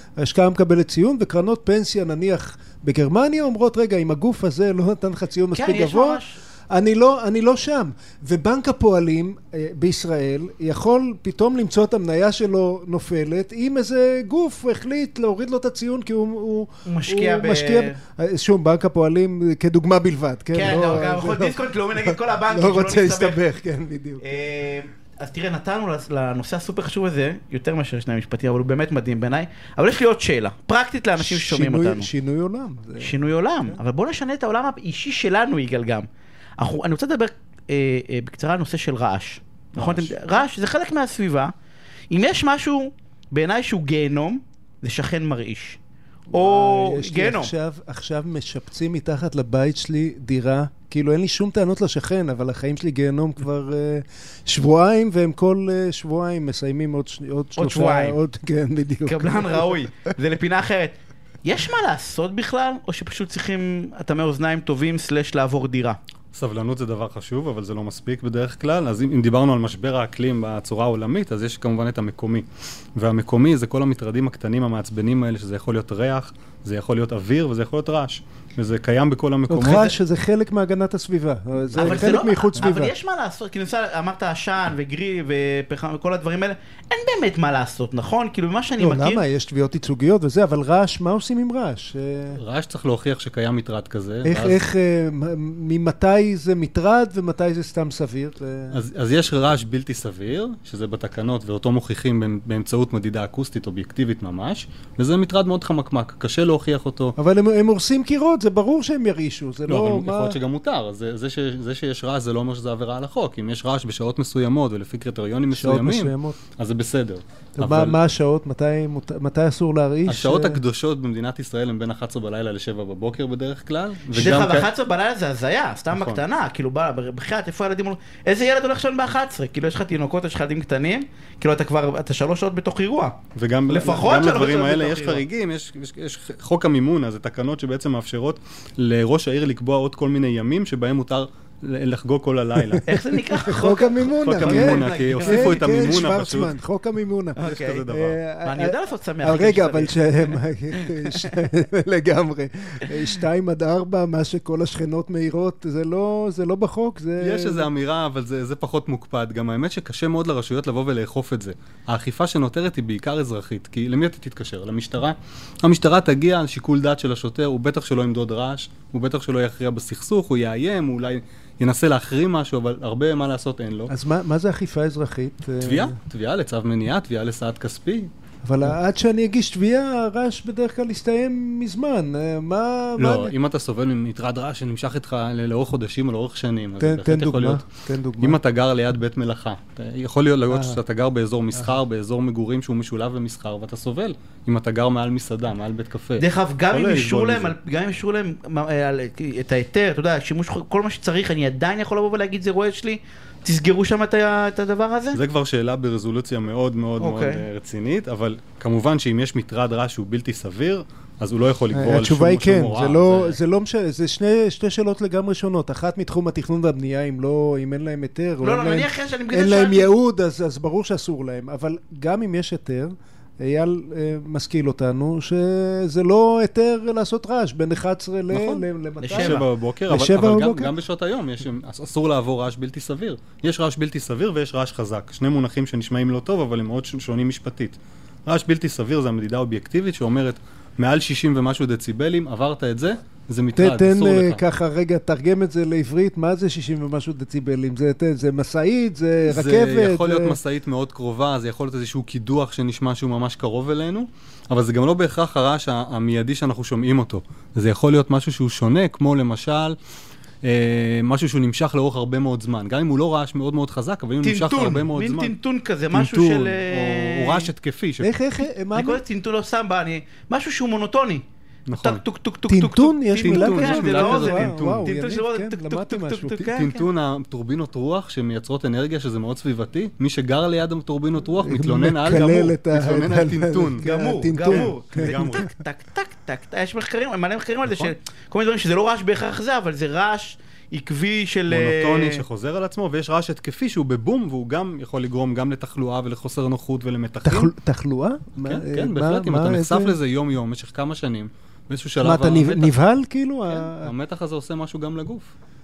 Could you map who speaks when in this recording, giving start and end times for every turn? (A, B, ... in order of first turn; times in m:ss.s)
0:00.2-0:24.3 A
0:05.5-0:06.4 B
0:16.9-0:18.0 B
0:20.5-0:23.4 B
0:24.2-0:32.1 B
0:31.2-0:33.2 A
0:33.0-0:36.1 B
0:36.6-0:41.5 B
0:39.8-0:40.1 C
0:42.1-0:45.8 B
0:46.3-0:59.9 A
0:46.3-0:47.5 B
0:57.6-0:58.2 B
0:59.1-1:06.0 B
1:06.3-1:12.4 C
1:13.0-1:19.9 C
1:19.5-1:22.9 A
1:19.7-1:20.0 B
1:21.8-1:29.2 B
1:21.8-1:22.1 C
1:28.8-1:32.4 A
1:32.4-1:34.6 C
1:34.2-1:38.8 A
1:38.7-1:47.2 C
1:47.2-1:50.4 A
1:49.7-1:58.0 C
1:55.5-1:56.4 A
1:57.6-2:00.6 A
2:00.1-2:04.7 C
2:04.1-2:15.2 B
2:05.9-2:06.2 C
2:13.4-2:22.9 C
2:22.6-2:37.7 A
2:22.9-2:26.2 B
2:23.6-2:26.6 C
2:27.4-2:27.8 B
2:27.4-2:28.2 C
2:28.4-2:31.3 B
2:37.2-2:53.9 C
2:53.9-2:56.0 A
2:55.6-2:58.1 C
2:58.4-3:03.4 A
3:03.0-3:07.7 C
3:06.8-3:08.4 A
3:08.2-3:17.6 C
3:10.5-3:10.8 A
3:16.2-3:25.2 B
3:25.1-3:33.4 C
3:27.0-3:27.4 B
3:31.7-3:50.7 A
3:38.4-3:39.9 B
3:48.3-4:04.4 C
3:49.0-3:49.5 B
4:03.6-4:10.4 A
4:09.2-4:19.8 C
4:20.4-4:25.4 C
4:24.2-4:27.5 B
4:25.9-4:28.1 C
4:28.0-4:29.0 A
4:28.7-4:36.9 B
4:31.7-4:32.0 C
4:32.5-4:36.5 A
4:33.2-4:34.9 C
4:36.5-4:43.8 C
4:41.4-4:45.5 A
4:43.8-4:52.2 B
4:44.4-4:45.5 C
4:47.6-4:47.9 C
4:51.5-4:57.5 C
4:57.2-5:00.0 A
4:58.4-5:02.8 C
5:02.0-5:03.9 A
5:03.5-5:05.3 C